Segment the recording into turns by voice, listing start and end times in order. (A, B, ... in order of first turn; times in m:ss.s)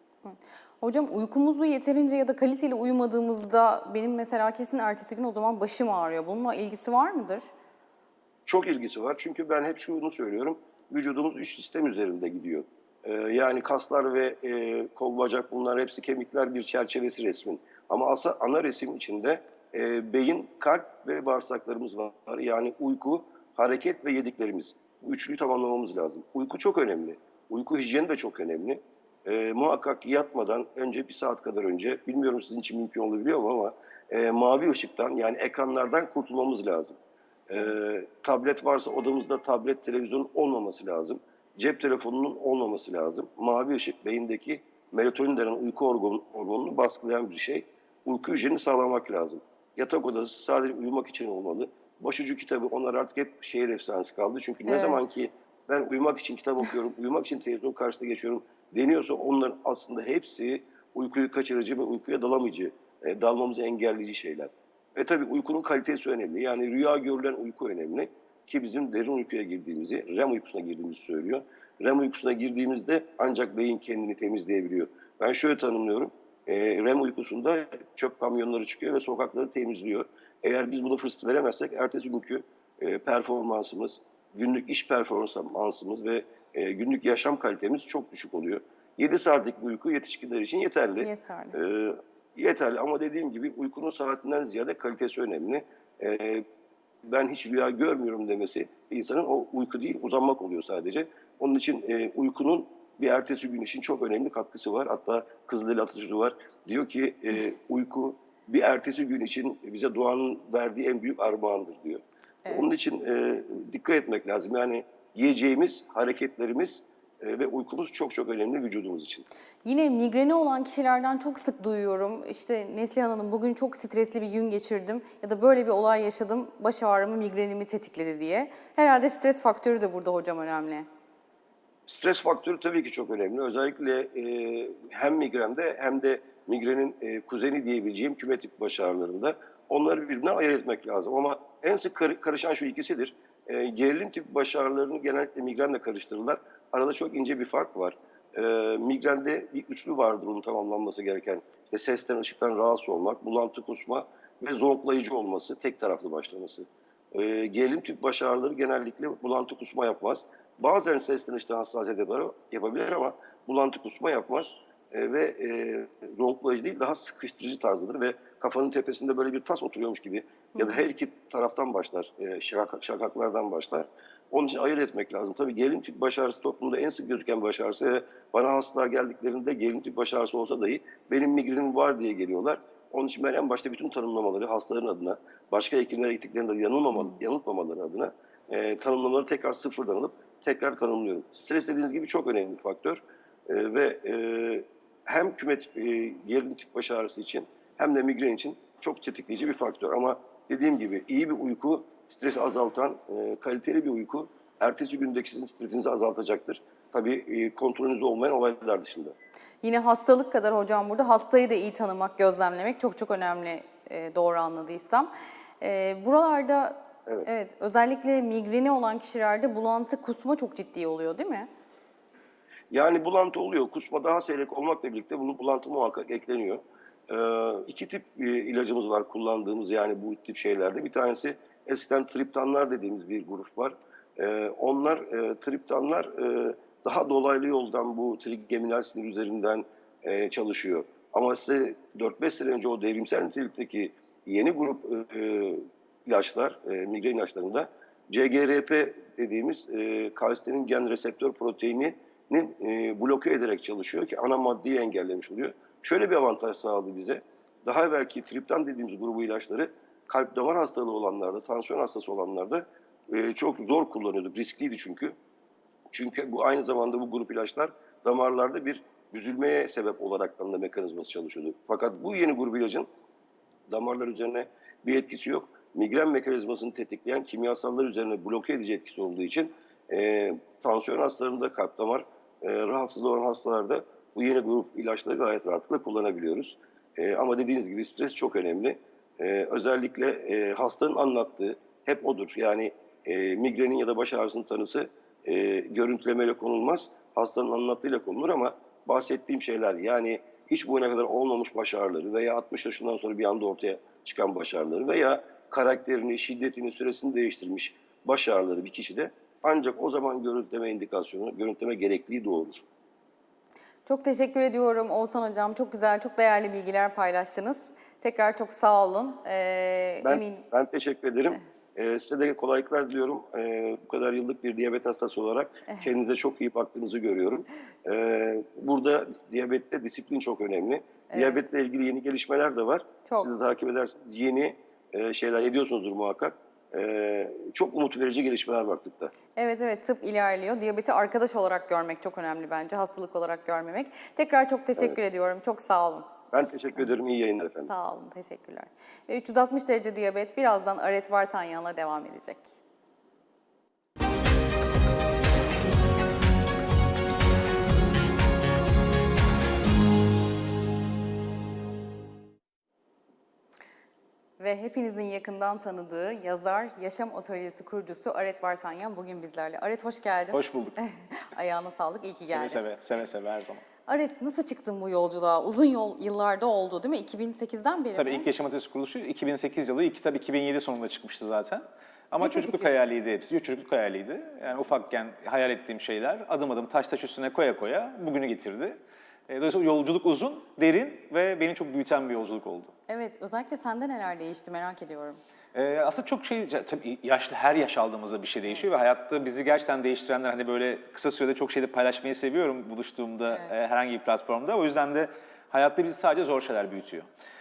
0:00.2-0:07.5 A
0:08.5-0:37.0 B
0:37.5-1:36.4 B
0:54.7-0:55.1 A
1:31.0-1:31.6 A
1:37.0-1:59.3 B
1:59.6-2:10.9 A
2:11.9-3:29.2 B
3:29.6-3:41.5 A
3:42.7-4:25.1 B
4:25.9-4:32.9 B
4:33.7-5:12.6 B
5:13.9-5:20.4 A
5:20.0-5:39.1 B
5:31.1-5:31.4 A
5:39.4-5:46.1 A
5:46.3-5:47.7 B
5:47.6-5:52.5 A
6:04.4-6:12.6 A
6:10.3-6:10.8 C
6:12.3-6:13.6 C
6:13.9-6:18.3 A
6:18.0-6:32.7 C
6:22.2-6:22.7 A
6:32.9-6:35.2 A
6:35.5-6:47.1 C